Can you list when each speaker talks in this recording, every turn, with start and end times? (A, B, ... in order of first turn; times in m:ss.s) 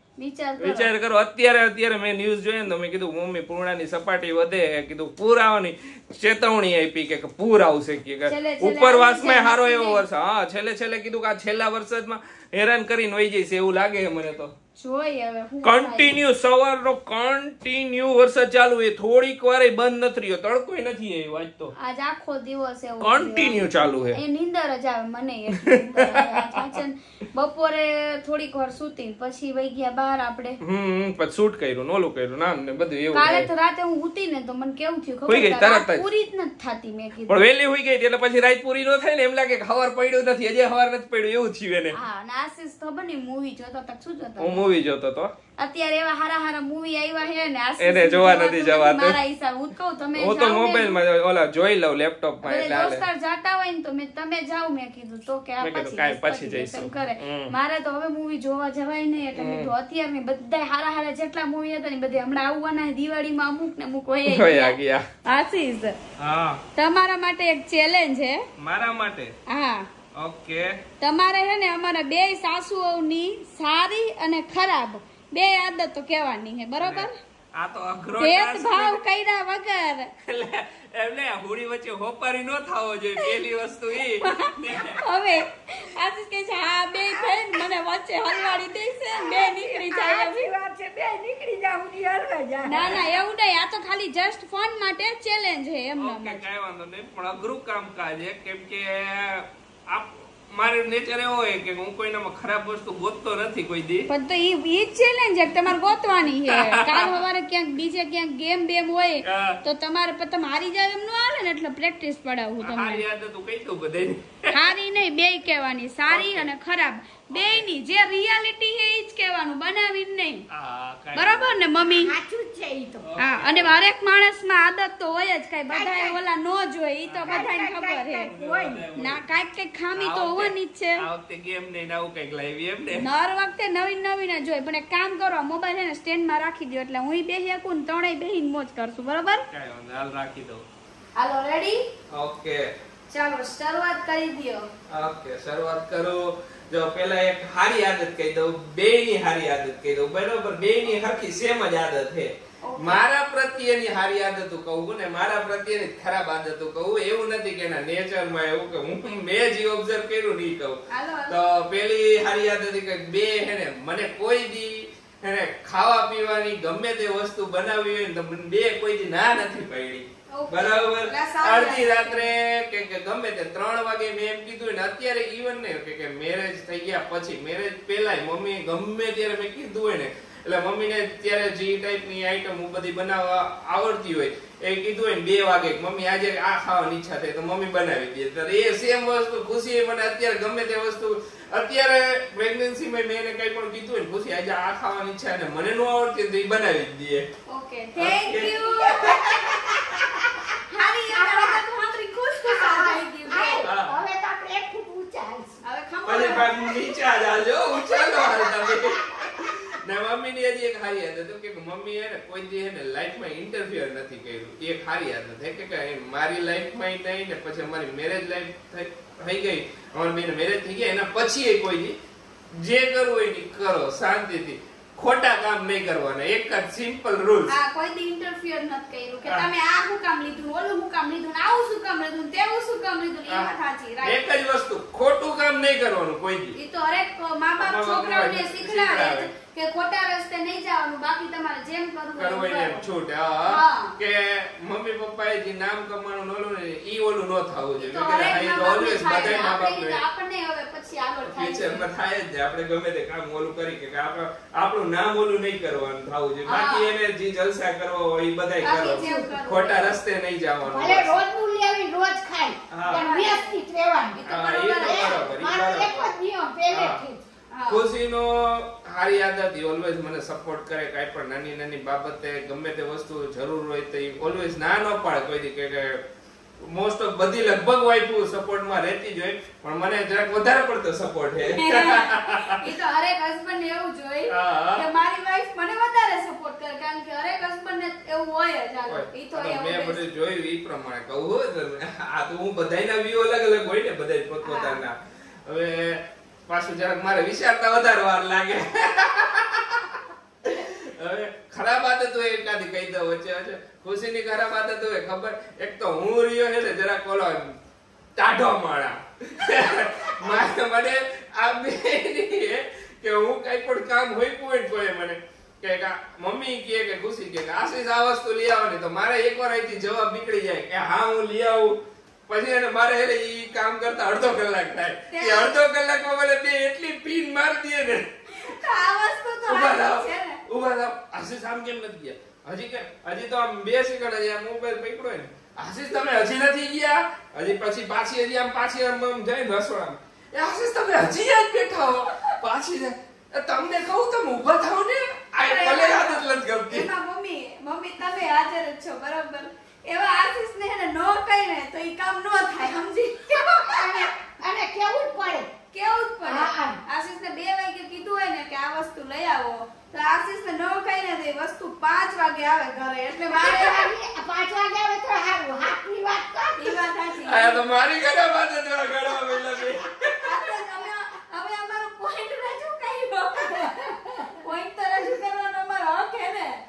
0:00.2-0:00.9 A
0:00.6-0:14.5 B
0:08.3-0:10.0 A
0:14.8-0:16.1 A
0:15.6-0:21.7 B
0:21.8-0:30.6 A
0:23.0-0:24.2 B
0:25.5-0:26.8 B
0:30.6-0:33.5 B
0:33.1-0:37.4 A
0:35.3-0:36.0 B
0:37.3-0:42.0 B
0:41.9-0:44.6 A
0:44.4-0:45.3 B
0:45.6-0:51.0 A
0:47.8-0:49.2 B
0:50.2-0:53.0 B
0:52.4-1:06.0 A
0:55.6-0:57.5 B
0:59.4-0:59.7 B
1:04.3-1:05.1 B
1:06.2-1:06.6 B
1:06.8-1:08.5 A
1:08.6-1:09.4 B
1:09.5-1:09.9 A
1:10.2-1:10.8 B
1:11.0-1:17.2 A
1:16.8-1:19.0 B
1:18.2-1:20.1 A
1:20.2-1:25.0 B
1:24.2-1:30.5 A
1:27.0-1:27.7 C
1:28.3-1:33.2 C
1:32.6-1:36.4 A
1:36.0-1:44.1 B
1:44.1-1:53.0 A
1:46.5-1:47.2 B
1:49.2-1:49.6 B
1:52.6-1:54.7 B
1:54.5-2:00.5 A
1:56.1-1:56.5 B
1:57.3-1:57.6 B
2:00.5-2:01.5 B
2:01.2-2:02.2 A
2:02.0-2:03.1 C
2:03.0-2:03.8 B
2:03.2-2:08.3 A
2:05.7-2:06.2 C
2:07.0-2:07.5 B
2:07.2-2:08.9 C
2:08.2-2:09.2 B
2:09.0-2:11.0 A
2:10.0-2:13.1 B
2:13.0-2:19.4 A
2:19.5-2:20.6 B
2:21.2-2:21.8 A
2:22.1-2:22.7 B
2:23.1-2:24.7 A
2:24.9-3:17.3 B
2:32.6-2:33.0 A
2:40.9-2:41.4 A
2:50.3-2:52.2 A
3:17.5-3:19.6 A
3:18.0-3:20.0 B
3:19.0-3:20.6 C
3:20.7-3:23.7 A
3:21.1-3:21.6 C
3:22.4-3:25.6 C
3:23.6-3:24.0 B
3:25.6-3:27.0 A
3:26.0-3:42.0 B
3:28.6-3:29.5 C
3:42.6-3:47.6 B
3:47.5-3:54.2 A
3:54.0-3:56.6 B
3:56.6-4:02.8 A
3:57.6-3:59.3 B
4:02.2-4:10.0 B
4:03.5-4:04.0 A
4:07.8-4:11.8 A
4:11.3-4:21.2 B
4:16.5-4:16.9 A
4:18.6-4:20.0 A
4:18.8-4:19.4 C
4:20.6-4:24.2 C
4:22.7-4:23.1 B
4:22.8-4:23.6 A
4:24.1-4:25.3 A
4:24.2-4:26.2 B
4:24.8-4:27.2 C
4:26.7-4:27.0 B
4:27.5-4:27.8 A
4:27.7-4:36.0 B
4:36.6-4:42.6 B
4:41.5-4:50.0 A
4:44.3-4:44.9 B
4:48.9-4:55.0 B
4:54.4-4:54.8 A
4:55.5-5:07.6 B
5:08.2-5:28.6 B
5:25.1-5:25.5 A
5:28.3-5:30.4 A
5:29.5-5:46.9 B
5:45.4-5:54.2 A
5:53.4-5:55.5 C
5:55.7-6:03.9 A
5:56.2-5:56.8 C
6:03.3-6:06.8 C
6:06.6-6:07.6 A
6:07.2-6:10.2 B
6:10.2-6:16.6 A